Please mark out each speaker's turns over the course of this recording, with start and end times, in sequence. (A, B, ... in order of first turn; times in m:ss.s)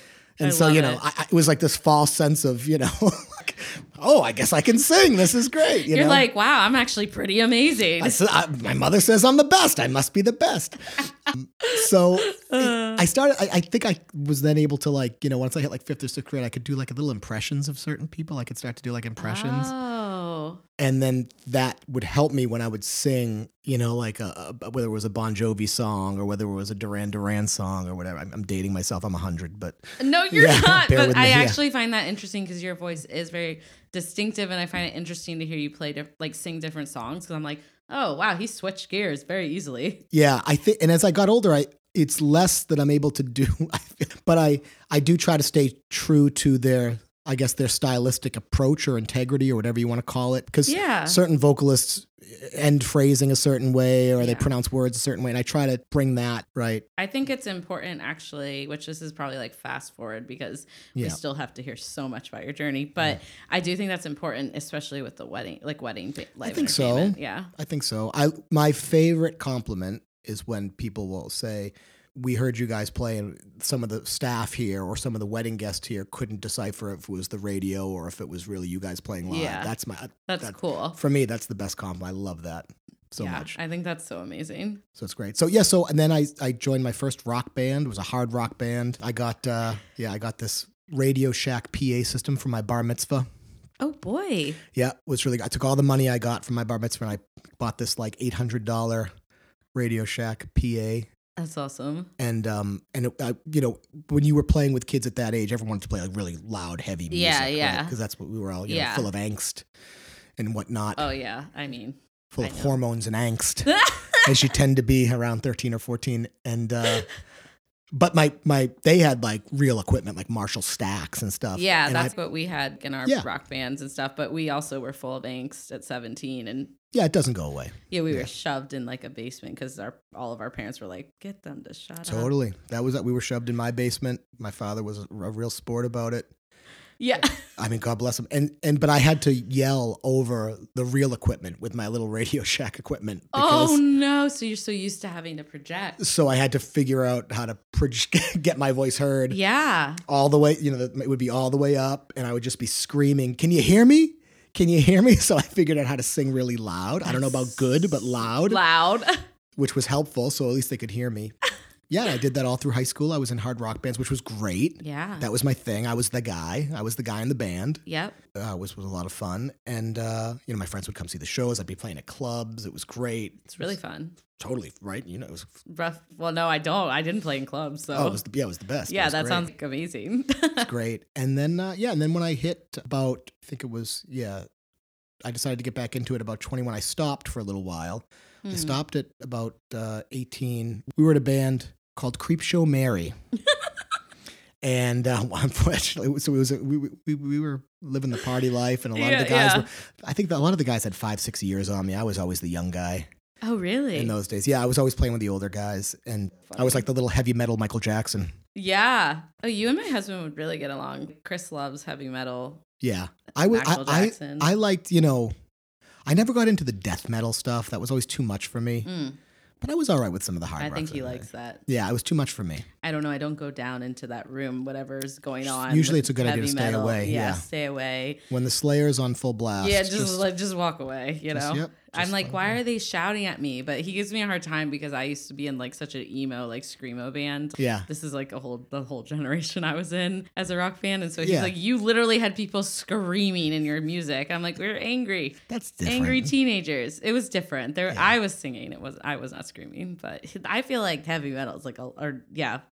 0:00.4-0:06.2 A
0:00.4-0:01.0 B
0:05.8-0:08.2 B
0:08.0-0:19.7 A
0:11.6-0:13.0 B
0:19.2-0:20.6 B
0:20.8-0:31.6 A
0:30.0-0:40.0 B
0:40.1-0:56.8 A
0:50.6-0:51.2 B
0:54.2-0:54.5 B
0:57.0-1:07.5 B
1:06.4-1:23.6 A
1:19.3-1:19.7 B
1:20.3-1:21.0 B
1:23.2-1:24.8 B
1:25.0-1:33.3 A
1:33.8-1:34.6 B
1:34.7-1:39.1 A
1:39.7-1:41.1 A
1:41.4-1:42.1 B
1:42.2-1:49.6 A
1:47.1-1:48.0 B
1:48.6-1:49.1 B
1:50.4-1:51.0 A
1:51.0-1:52.8 B
1:52.3-1:57.0 A
1:53.7-1:54.3 B
1:57.9-2:02.1 A
2:01.5-2:06.7 B
2:06.9-2:08.3 A
2:07.9-2:12.3 B
2:12.0-2:16.3 A
2:17.0-2:17.4 B
2:17.6-2:23.8 A
2:23.3-2:26.0 B
2:26.0-2:29.4 A
2:29.3-2:30.0 B
2:30.0-2:38.6 A
2:37.0-2:37.6 B
2:38.4-2:39.2 B
2:39.6-2:41.3 A
2:41.9-2:47.8 A
2:44.8-2:45.3 B
2:47.8-2:48.2 B
2:48.3-2:53.7 A
2:53.5-2:54.2 B
2:54.4-2:55.5 A
2:55.6-2:58.2 B
2:57.9-2:59.4 A
2:58.9-3:00.7 B
3:00.6-3:04.4 A
3:05.2-3:13.1 A
3:08.4-3:08.8 B
3:14.6-3:23.1 A
3:18.9-3:19.6 B
3:23.4-3:24.1 B
3:23.9-3:28.3 A
3:26.5-3:26.8 B
3:28.5-3:32.6 B
3:32.8-3:35.3 A
3:33.4-3:34.5 B
3:36.0-3:38.9 A
3:38.8-3:39.2 B
3:39.6-3:42.7 A
3:40.6-3:41.6 B
3:42.8-3:48.2 B
3:45.4-3:47.4 A
3:48.3-3:50.3 A
3:49.6-4:12.6 B
3:51.3-3:52.6 A
3:57.6-3:57.9 A
4:01.2-4:01.5 A
4:05.5-4:06.3 A